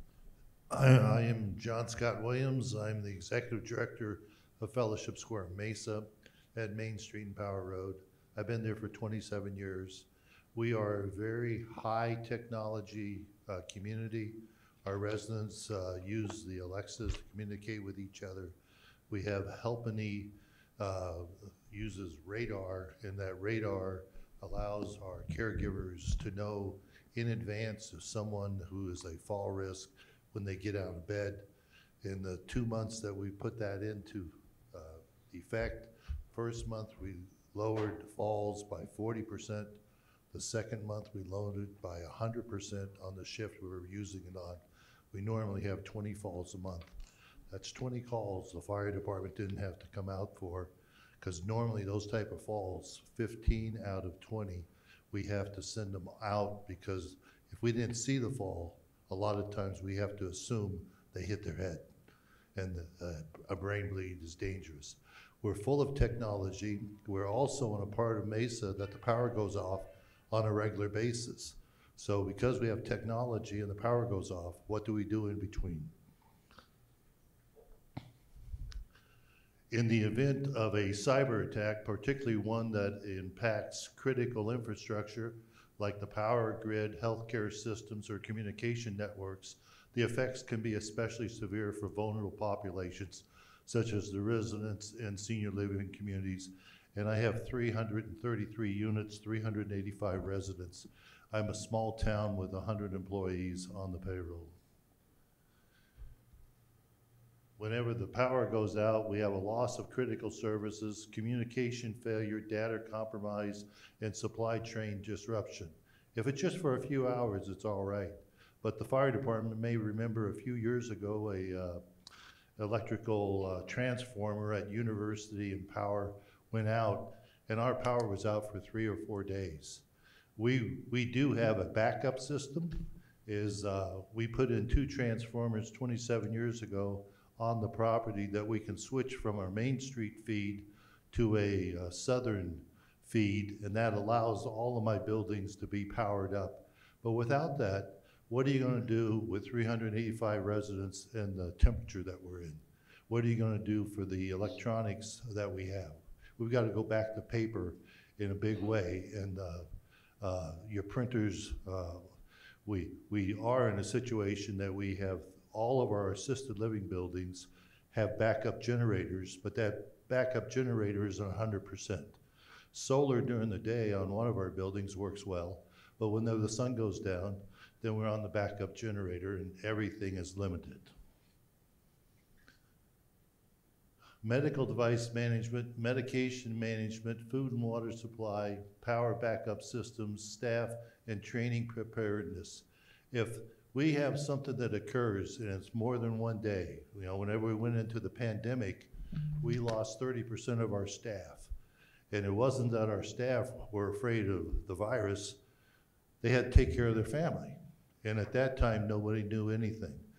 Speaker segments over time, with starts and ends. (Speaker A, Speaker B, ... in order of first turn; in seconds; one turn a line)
Speaker A: 0.7-18.5
Speaker A: 19.1-31.4
Speaker A: 32.0-39.8
Speaker A: 40.3-44.6
Speaker A: 45.1-46.9
Speaker A: 47.5-61.9
Speaker A: 62.5-75.9
Speaker A: 79.7-104.5
Speaker A: 107.6-121.8
Speaker A: 122.6-129.8
Speaker A: 130.4-159.7
Speaker A: 160.2-162.1
Speaker A: 162.7-172.2
Speaker A: 172.7-180.9
Speaker A: 184.2-201.5
Speaker A: 202.1-205.4
Speaker A: 206.2-210.0